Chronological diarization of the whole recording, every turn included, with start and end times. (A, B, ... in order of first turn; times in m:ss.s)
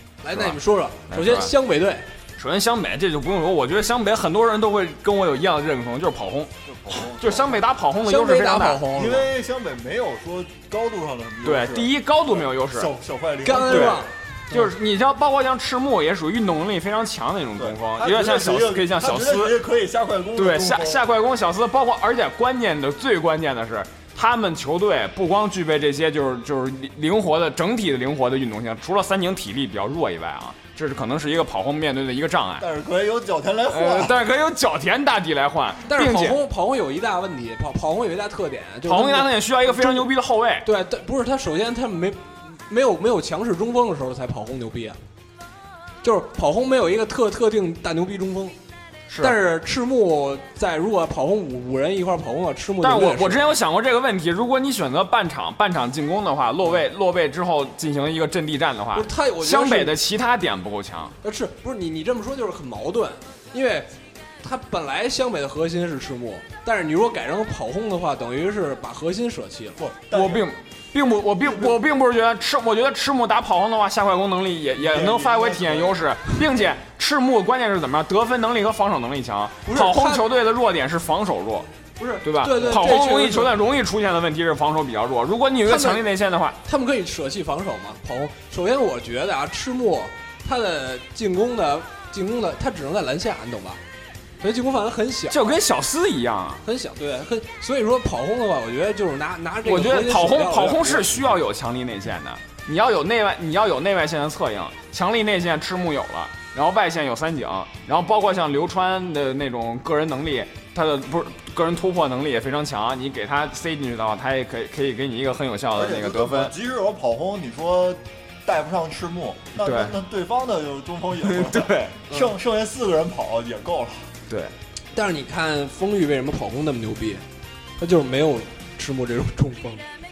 0:00.2-0:02.1 A
0:00.3-0:00.6 B
0:01.1-0:01.5 B
0:02.4-0:08.9 B
0:06.7-0:07.6 C
0:08.0-0:09.3 A
0:08.9-0:14.1 C
0:11.4-0:12.9 B
0:13.4-0:14.7 A
0:13.7-0:14.0 B
0:14.5-0:19.6 B
0:17.6-0:21.0 C
0:20.4-0:32.7 B
0:32.6-0:34.2 C
0:33.7-0:36.4 B
0:35.9-0:40.1 A
0:38.8-0:40.7 B
0:40.6-0:45.0 A
0:46.0-0:48.6 A
0:49.1-0:49.4 B
0:49.2-0:53.5 A
0:52.8-1:01.2 B
0:58.9-0:59.9 A
1:01.2-1:09.8 A
1:09.8-1:10.5 C
1:10.1-1:21.7 B
1:11.4-1:11.8 C
1:14.8-1:16.0 C
1:19.6-1:20.2 A
1:22.0-1:23.5 A
1:22.2-1:26.6 B
1:25.7-1:26.0 A
1:26.6-1:33.8 A
1:34.4-1:35.5 A
1:35.3-1:36.6 B
1:36.6-1:41.4 A
1:39.6-1:56.5 B
1:55.7-2:04.1 C
1:59.6-2:00.0 B
2:01.2-2:02.0 B
2:04.9-2:07.2 A
2:07.8-2:09.9 A